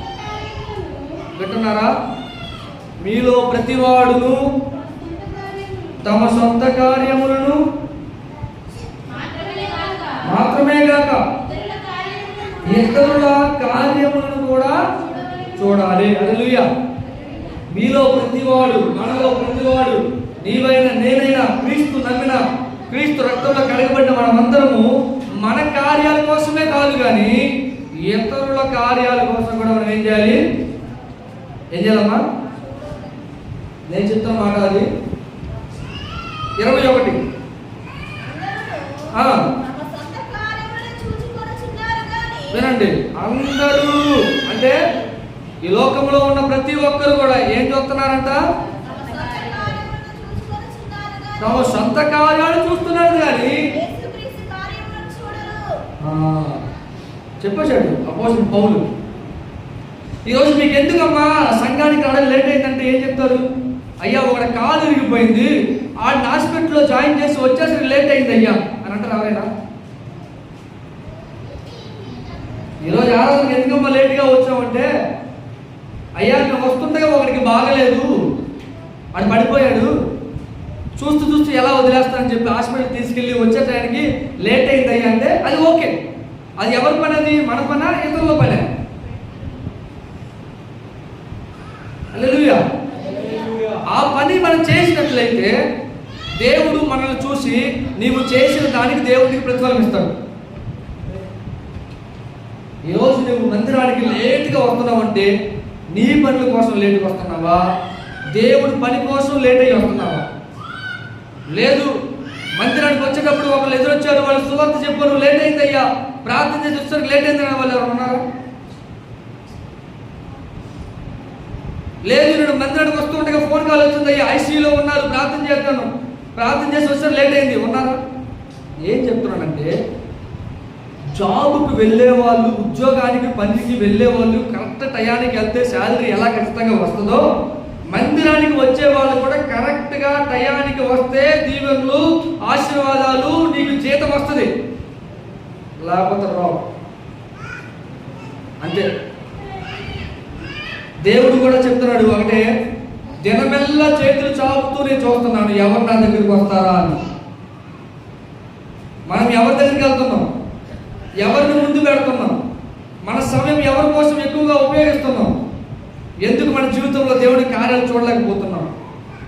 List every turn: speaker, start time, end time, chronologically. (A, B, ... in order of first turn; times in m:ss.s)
0:00.3-0:01.2 A
0:01.3-0:01.9 B
0:03.0-0:04.4 B
0:06.0-0:07.6 B
0:09.1-0:10.2 A
0:10.2-0:11.2 B
0:11.6-0:12.6 A
0:12.6-0:14.8 B
0:15.5-0:16.7 B
0:17.7-0:24.9 B
0:25.4-0:27.4 B
0:28.0-0:30.4 B
0:31.7-0:32.2 B
0:33.9-0:34.9 B
0:36.6-0:37.2 B
0:38.2-0:42.6 A
0:39.1-0:39.4 B
0:42.5-0:44.8 B
0:45.6-0:48.4 B
0:48.8-0:51.8 A
0:51.4-0:53.7 B
0:53.7-0:55.8 A
0:56.0-0:56.6 B
0:57.4-0:58.8 B
1:00.3-1:03.4 B
1:04.0-1:05.5 B
1:06.0-1:09.5 B
1:12.8-1:14.9 B
1:16.2-1:18.1 B
1:19.1-1:19.9 B
1:21.0-1:25.9 B
1:26.6-1:28.6 B
1:32.1-1:32.6 B
1:33.9-1:35.5 B
1:36.4-1:40.1 B
1:42.8-1:45.3 B
1:45.9-1:47.6 B
1:48.3-1:50.2 B
1:51.5-1:51.9 B
1:52.6-1:58.2 B
2:02.0-2:08.0 B
2:08.8-2:09.7 B
2:11.1-2:17.2 B
2:17.9-2:24.5 B
2:25.8-2:26.6 B
2:31.0-2:32.4 B
2:33.2-2:37.0 B
2:39.1-2:40.3 B
2:41.2-2:42.3 B
2:43.0-2:45.3 B
2:46.2-2:48.7 B